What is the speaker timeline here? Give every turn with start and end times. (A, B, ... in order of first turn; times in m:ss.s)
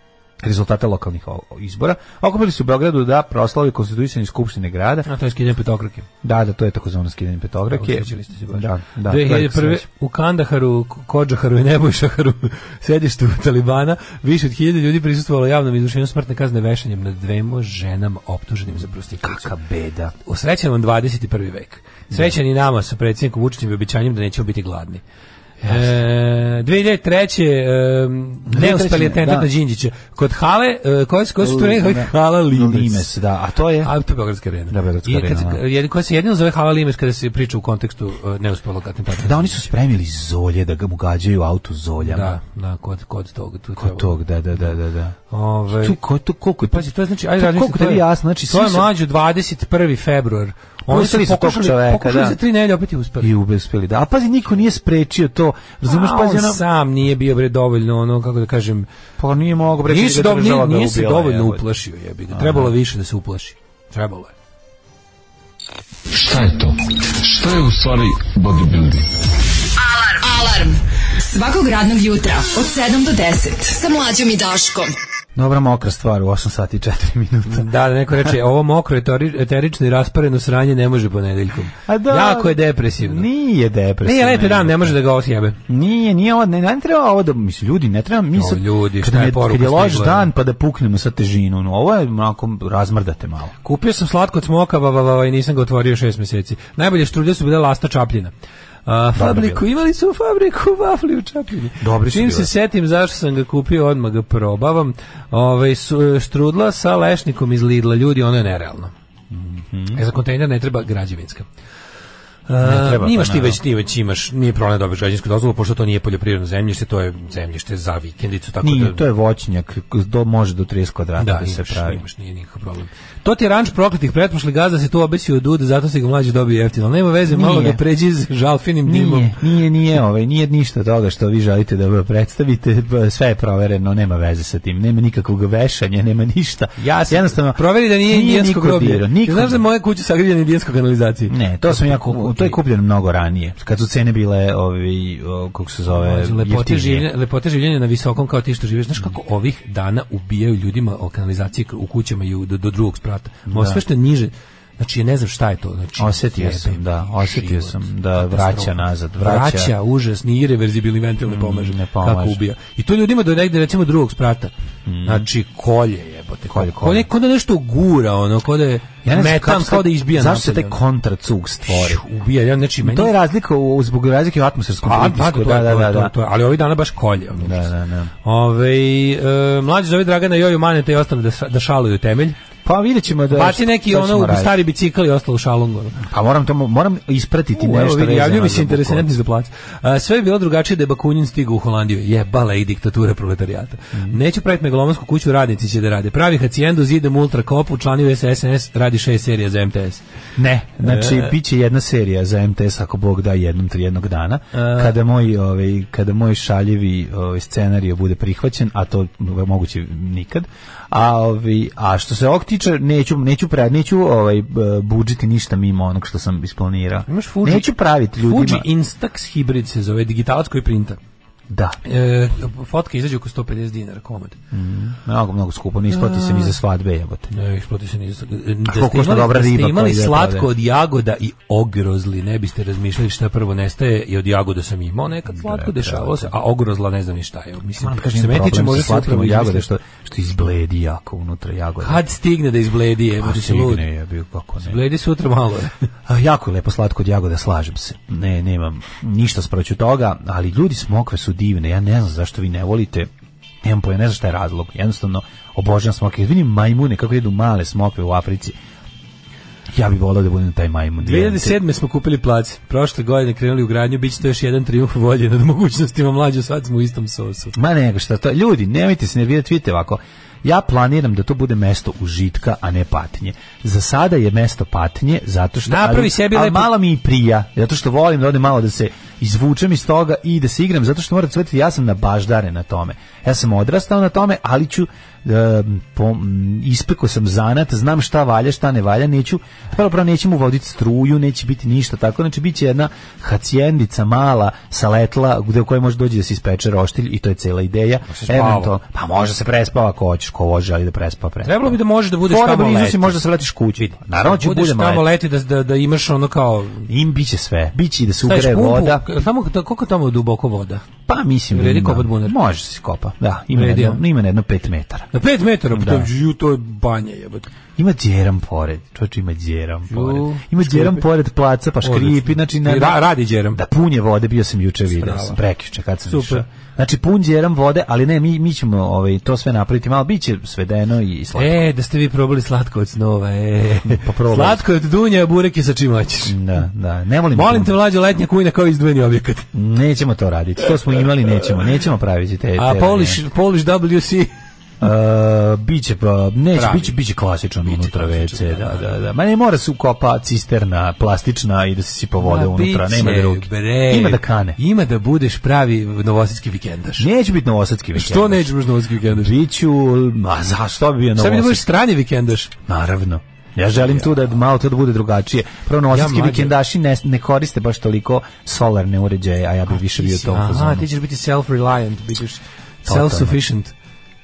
0:00.4-0:05.1 A
0:05.1-0:06.1 B
0:06.2-0:09.9 A
0:07.7-0:19.5 B
0:19.2-0:20.1 A
0:20.2-0:25.0 B
0:22.1-0:22.4 A
0:25.6-0:26.0 A
0:25.6-0:33.1 B
0:28.5-0:29.5 A
0:31.4-0:33.9 A
0:33.8-0:39.7 B
0:34.7-0:35.6 A
0:39.2-0:42.4 A
0:42.0-0:44.2 B
0:43.8-0:45.2 A
0:45.3-0:46.0 B
0:45.7-0:48.9 A
0:46.7-0:53.3 B
0:50.9-0:52.4 A
0:53.2-0:56.6 A
0:55.9-0:58.9 B
0:59.2-1:01.6 A
0:59.9-1:04.3 B
1:02.3-1:02.7 A
1:06.1-1:09.1 C
1:09.8-1:15.0 D
1:15.4-1:17.7 A
1:17.5-1:23.3 B
1:21.9-1:25.0 A
1:24.0-1:25.6 B
1:25.7-1:33.6 A
1:28.3-1:30.3 B
1:33.6-1:38.3 B
1:38.9-1:48.9 B
1:39.2-1:39.6 A
1:41.8-1:42.5 A
1:49.3-1:50.0 A
1:49.9-1:51.5 B
1:52.5-1:59.0 B
1:52.6-1:53.6 A
1:58.6-2:02.0 A
2:01.2-2:09.4 B
2:07.3-2:07.8 A
2:08.8-2:19.6 A
2:16.8-2:22.6 B
2:21.3-2:27.1 A
2:25.9-2:44.5 B
2:33.5-2:33.8 A
2:36.0-2:39.7 A
2:41.2-2:42.4 A
2:44.9-2:45.3 A
2:45.0-2:50.8 B
2:46.5-2:47.1 A
2:49.0-2:52.0 A
2:51.7-2:53.1 B
2:52.8-2:56.1 A
2:54.8-2:57.6 B
2:57.3-2:58.1 A
2:58.2-3:02.4 B
3:02.6-3:04.6 A
3:03.3-3:06.0 B
3:06.0-3:09.1 A
3:07.6-3:20.0 B
3:20.4-3:38.7 A
3:20.8-3:21.3 B
3:24.5-3:25.0 B
3:37.1-3:41.0 B
3:41.5-3:41.8 A
3:41.8-3:44.4 B
3:44.5-3:47.3 A
3:45.9-3:46.5 B
3:47.3-3:59.7 B
3:48.6-3:50.5 A
3:55.3-3:56.3 A
3:57.8-4:02.0 A
4:01.8-4:03.8 B
4:03.2-4:04.8 A
4:04.6-4:05.7 B
4:06.1-4:13.1 A
4:13.6-4:18.6 A
4:19.7-4:21.6 A
4:21.0-4:27.5 B
4:27.6-5:05.1 A
4:35.7-4:36.7 B
4:58.1-4:58.7 B
5:01.4-5:03.2 B
5:04.2-5:06.9 B
5:06.9-5:09.1 A
5:08.2-5:10.8 B
5:11.1-5:15.1 A
5:11.5-5:12.4 B
5:13.5-5:14.0 B
5:15.1-5:17.5 B
5:15.7-5:16.1 A
5:17.8-5:31.7 A
5:19.9-5:21.1 B
5:21.8-5:23.6 B
5:24.9-5:25.4 B
5:26.1-5:26.4 B
5:31.4-5:36.4 B
5:33.8-5:34.6 A
5:36.3-5:37.8 A
5:37.3-5:39.5 B
5:39.5-5:43.2 A
5:42.6-5:44.3 B
5:44.8-5:54.6 A
5:46.5-5:47.0 B
5:47.6-5:49.1 B
5:52.2-5:57.1 B
5:57.0-6:01.6 A
5:58.0-5:59.3 B
6:01.2-6:02.5 B
6:02.7-6:10.9 A
6:03.8-6:04.1 B
6:05.9-6:06.6 B
6:09.7-6:13.7 B
6:12.9-6:13.4 A